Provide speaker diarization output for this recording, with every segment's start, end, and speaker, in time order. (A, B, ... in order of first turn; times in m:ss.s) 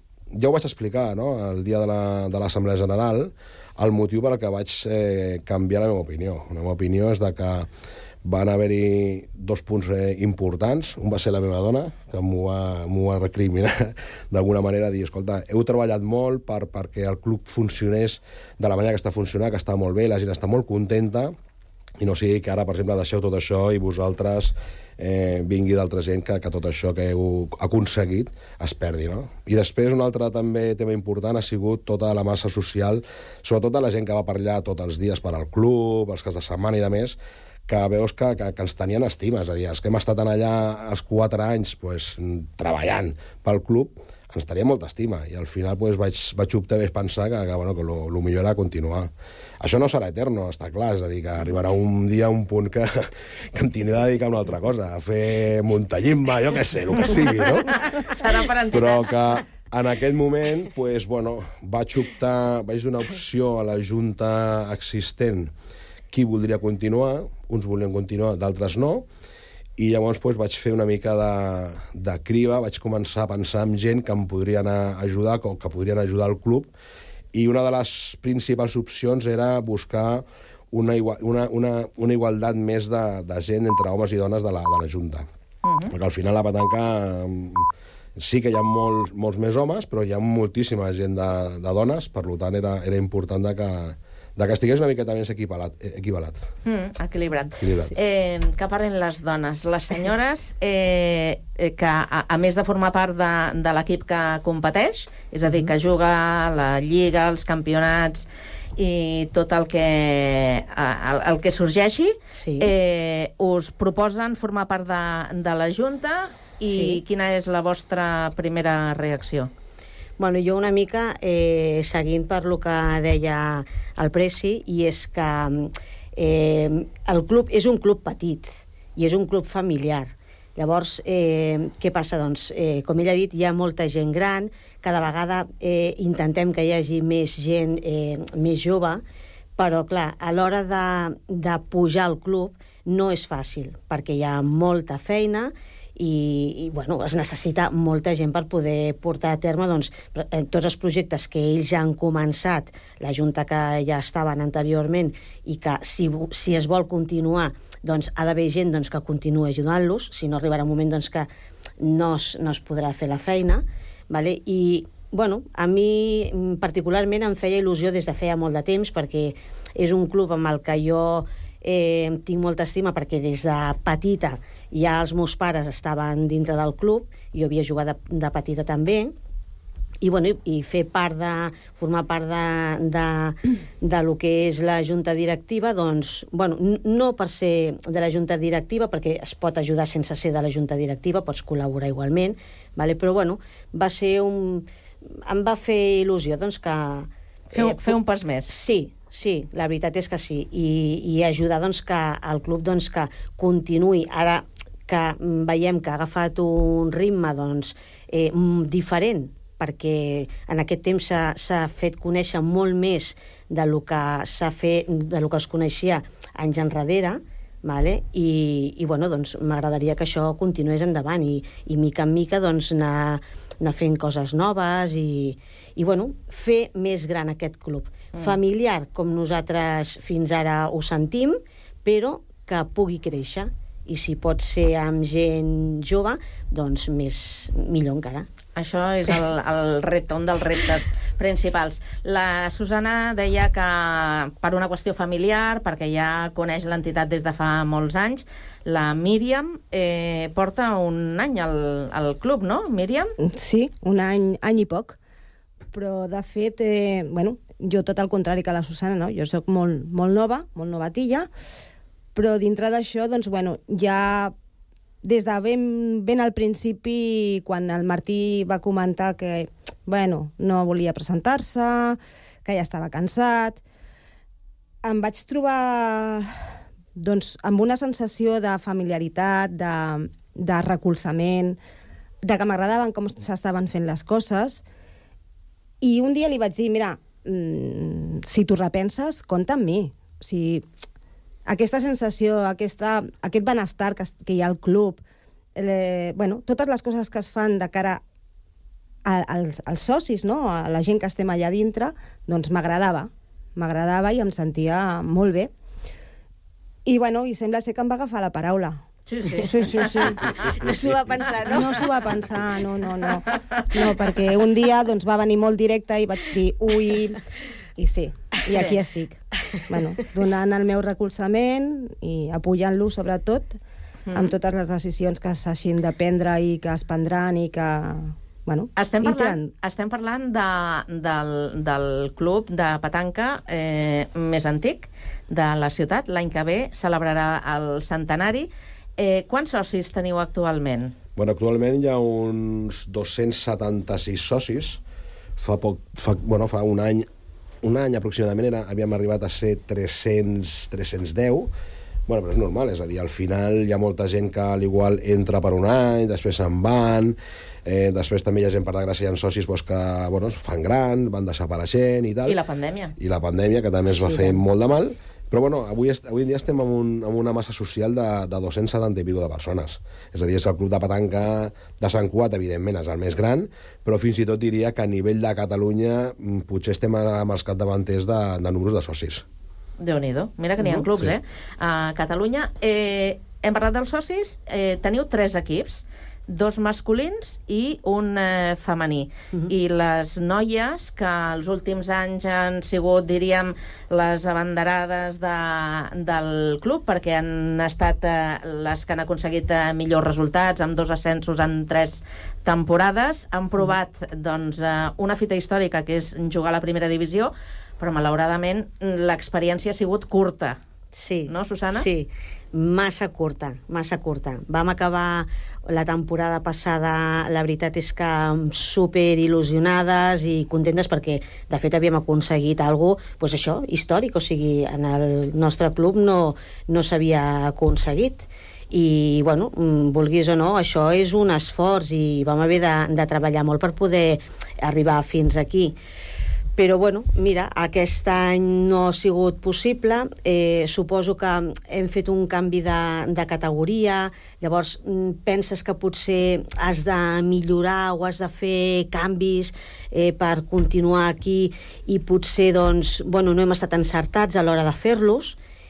0:00.3-0:07.7 A
0:08.2-0:21.3 A
0:22.0-0:37.2 A
0:37.7-0:57.8 A
0:57.0-0:59.1 B
0:58.7-1:05.5 A
1:06.1-1:09.0 A
1:09.8-1:16.7 A
1:17.3-1:25.3 A
1:25.6-1:25.9 B
1:25.9-1:27.6 A
1:28.2-1:36.4 A
1:36.6-1:59.5 B
1:37.6-1:37.9 A
1:52.3-1:52.7 C
1:56.6-1:57.0 C
2:00.2-2:19.0 C
2:19.6-2:59.1 C
3:00.0-3:58.3 C
3:17.5-3:18.5 B
3:58.6-4:13.1 B
4:13.2-4:15.0 D
4:15.7-4:21.3 D
4:22.2-4:24.3 D
4:25.0-4:33.6 D
4:34.8-4:36.3 D
4:37.0-4:41.6 D
4:42.2-4:44.6 D
4:45.8-4:50.6 D
4:51.5-4:55.0 D
4:55.6-4:58.0 D
4:59.0-5:05.5 D
5:06.8-5:08.8 D
5:09.1-5:11.9 B
5:09.4-5:10.3 D
5:09.9-5:11.7 C
5:11.5-5:17.2 D
5:13.6-5:13.9 B
5:17.8-5:23.6 D
5:18.5-5:18.8 B
5:24.1-5:24.3 B
5:24.1-5:29.5 D
5:28.8-5:40.9 B
5:41.2-5:44.8 A
5:45.4-5:47.0 A
5:47.6-5:51.5 A
5:52.1-6:02.4 A
6:02.3-6:02.9 B
6:03.0-6:19.2 A
6:19.8-6:50.6 B
6:50.9-7:15.8 C
6:51.3-6:51.8 B
7:16.6-7:35.4 C